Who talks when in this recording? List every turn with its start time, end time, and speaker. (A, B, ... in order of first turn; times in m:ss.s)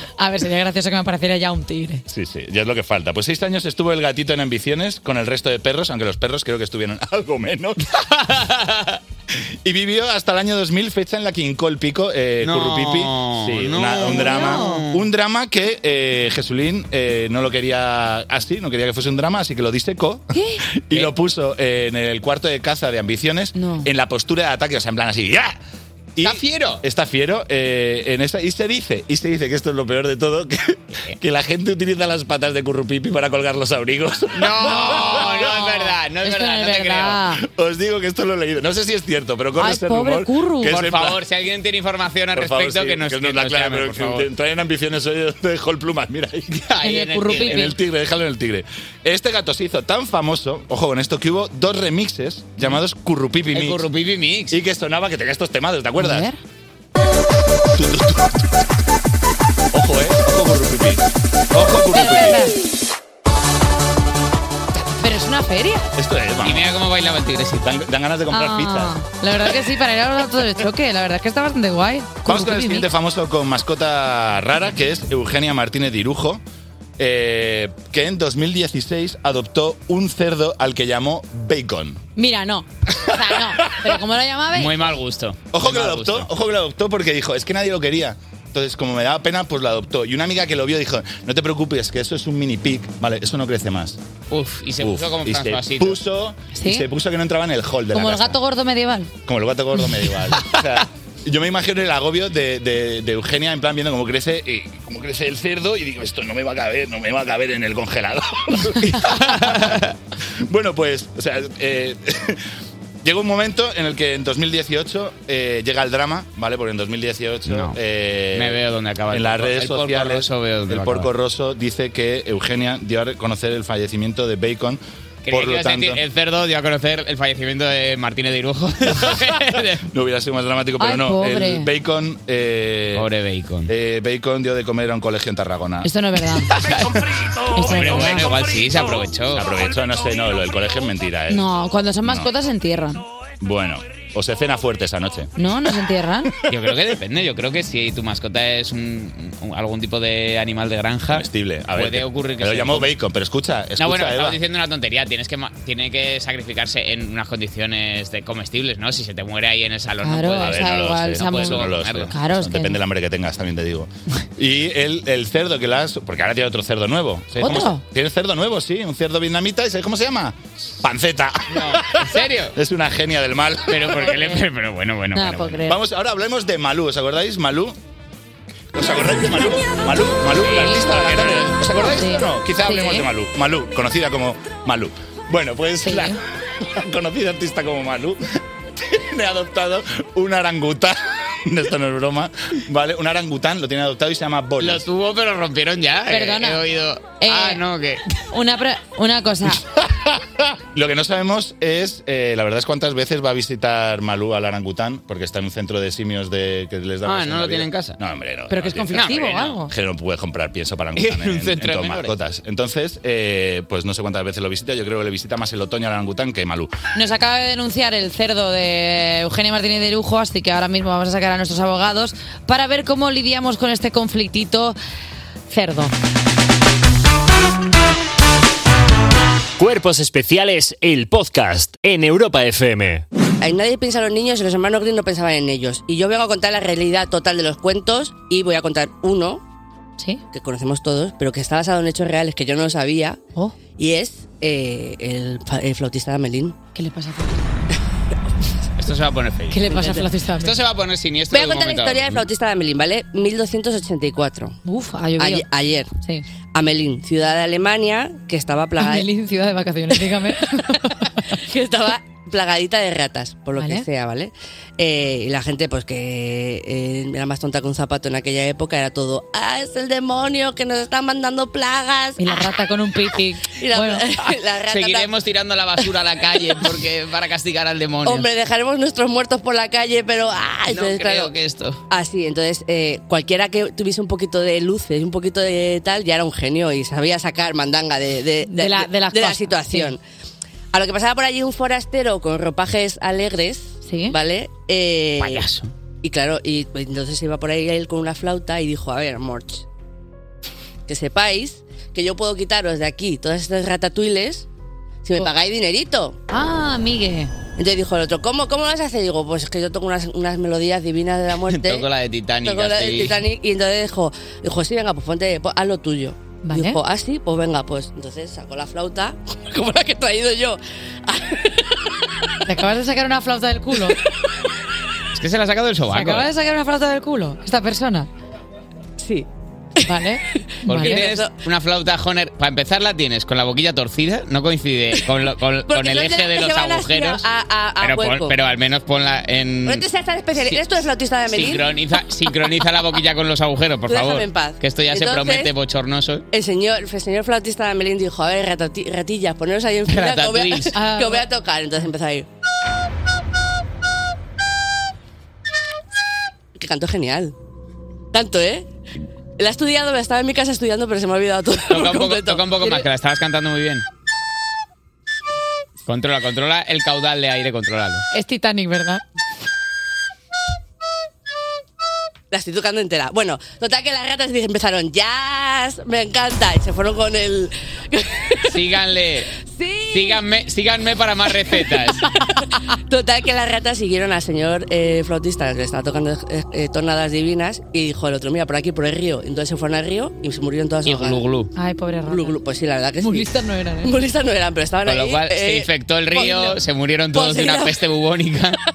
0:00.2-0:02.0 A
0:02.1-0:07.8 B
0:08.2-0:09.0 C
0:09.6-0:25.6 B
0:12.4-0:15.1 C
0:14.1-0:14.8 A
0:20.4-0:20.6 A
0:23.6-0:23.9 A
0:26.2-0:35.6 B
0:26.2-0:26.8 C
0:34.3-0:37.2 C
0:34.7-0:37.4 A
0:37.4-0:41.2 B
0:39.6-0:40.8 A
0:40.6-0:44.3 C
0:42.4-0:46.5 B
0:46.5-0:47.8 C
0:46.8-0:47.8 A
0:47.3-0:53.8 B
0:53.5-0:54.6 C
0:54.5-0:56.3 B
0:56.0-0:56.4 A
0:57.7-0:58.4 B
0:59.7-1:02.5 B
1:01.9-1:02.6 A
1:05.0-1:05.9 A
1:06.0-1:06.7 B
1:06.4-1:07.7 C
1:07.6-1:09.0 B
1:08.3-1:12.9 A
1:12.2-1:16.4 B
1:17.0-1:22.0 B
1:22.2-1:24.7 A
1:23.0-1:24.0 B
1:24.5-1:26.3 C
1:25.5-1:34.0 B
1:34.3-1:36.0 C
1:34.8-1:38.4 B
1:36.5-1:36.9 A
1:37.9-1:39.1 A
1:39.3-1:49.8 B
1:49.0-1:49.9 C
1:50.5-1:52.4 B
1:53.0-1:58.6 B
1:57.5-1:57.8 C
1:58.3-2:01.1 C
1:59.1-2:06.0 B
2:05.2-2:09.8 C
2:09.9-2:13.1 B
2:10.8-2:11.7 A
2:13.0-2:13.7 C
2:13.7-2:15.9 B
2:15.8-2:16.5 A
2:16.5-2:17.0 C
2:17.5-2:18.3 A
2:17.6-2:18.2 B
2:17.6-2:19.5 C
2:18.8-2:21.5 B
2:21.3-2:23.0 A
2:22.0-2:22.3 B
2:23.4-2:25.3 B
2:25.4-2:26.3 A
2:26.5-2:32.9 C
2:31.1-2:34.4 B
2:33.8-2:42.1 C
2:40.0-2:42.8 A
2:40.3-2:54.4 B
2:47.4-2:47.8 A
2:47.4-2:47.7 C
2:51.5-2:52.6 C
2:53.7-2:55.7 C
2:55.2-2:55.8 A
2:55.6-2:57.8 B
2:58.7-3:08.2 B
3:00.2-3:01.6 C
3:00.4-3:00.9 A
3:01.8-3:03.1 A
3:05.8-3:06.2 A
3:08.9-3:14.9 B
3:14.6-3:18.0 C
3:16.1-3:16.6 A
3:17.2-3:17.6 A
3:18.3-3:19.6 A
3:19.7-3:36.7 B
3:27.0-3:28.0 C
3:28.5-3:29.7 A
3:28.9-3:29.6 C
3:31.0-3:32.2 C
3:36.9-3:44.8 A
3:45.5-3:45.9 A
3:49.6-3:53.0 D
3:53.4-3:59.4 E
4:00.3-4:03.2 E
4:03.8-4:06.6 E
4:06.8-4:07.5 A
4:08.8-4:12.3 C
4:09.5-4:10.6 A
4:09.7-4:10.1 E
4:11.3-4:14.6 E
4:14.6-4:15.5 A
4:15.2-4:15.9 E
4:16.5-4:19.1 E
4:18.8-4:21.3 A
4:19.9-4:20.6 E
4:21.3-4:32.5 E
4:23.6-4:23.9 A
4:32.2-4:34.1 A
4:33.5-4:35.1 E
4:34.7-4:38.3 C
4:38.0-4:41.3 E
4:40.7-4:41.8 C
4:41.9-4:50.0 E
4:48.5-4:49.9 A
4:50.7-4:55.5 E
4:53.8-4:54.2 A
4:55.2-4:55.7 C
4:56.0-4:59.6 E
5:00.9-5:04.5 E
5:05.0-5:06.2 E
5:06.3-5:07.3 A
5:07.6-5:11.9 E
5:11.4-5:13.2 C
5:12.4-5:21.8 E
5:16.4-5:16.8 A
5:22.4-5:24.0 A
5:25.1-5:26.3 C
5:25.9-5:28.1 A
5:29.0-5:29.3 E
5:29.8-5:31.3 E
5:29.8-5:31.0 A
5:30.7-5:37.3 C
5:35.7-5:38.4 E
5:37.8-5:40.6 C
5:39.6-5:41.7 E
5:41.3-5:46.2 C
5:43.9-5:45.5 E
5:46.3-5:52.3 E
5:49.9-5:50.8 C
5:50.7-5:51.2 A
5:56.6-5:57.3 E
5:58.1-5:58.7 E
5:59.4-6:02.9 E
6:01.7-6:03.9 C
6:05.9-6:08.0 C
6:08.1-6:09.0 A
6:12.3-6:18.6 E
6:18.5-6:19.3 C
6:19.9-6:22.1 C
6:21.9-6:22.3 E
6:22.9-6:31.3 E
6:30.8-6:31.5 C
6:31.6-6:32.4 A
6:32.1-6:33.3 E
6:33.0-6:34.0 A
6:33.8-6:36.6 E
6:34.8-6:38.6 C
6:37.1-6:37.8 E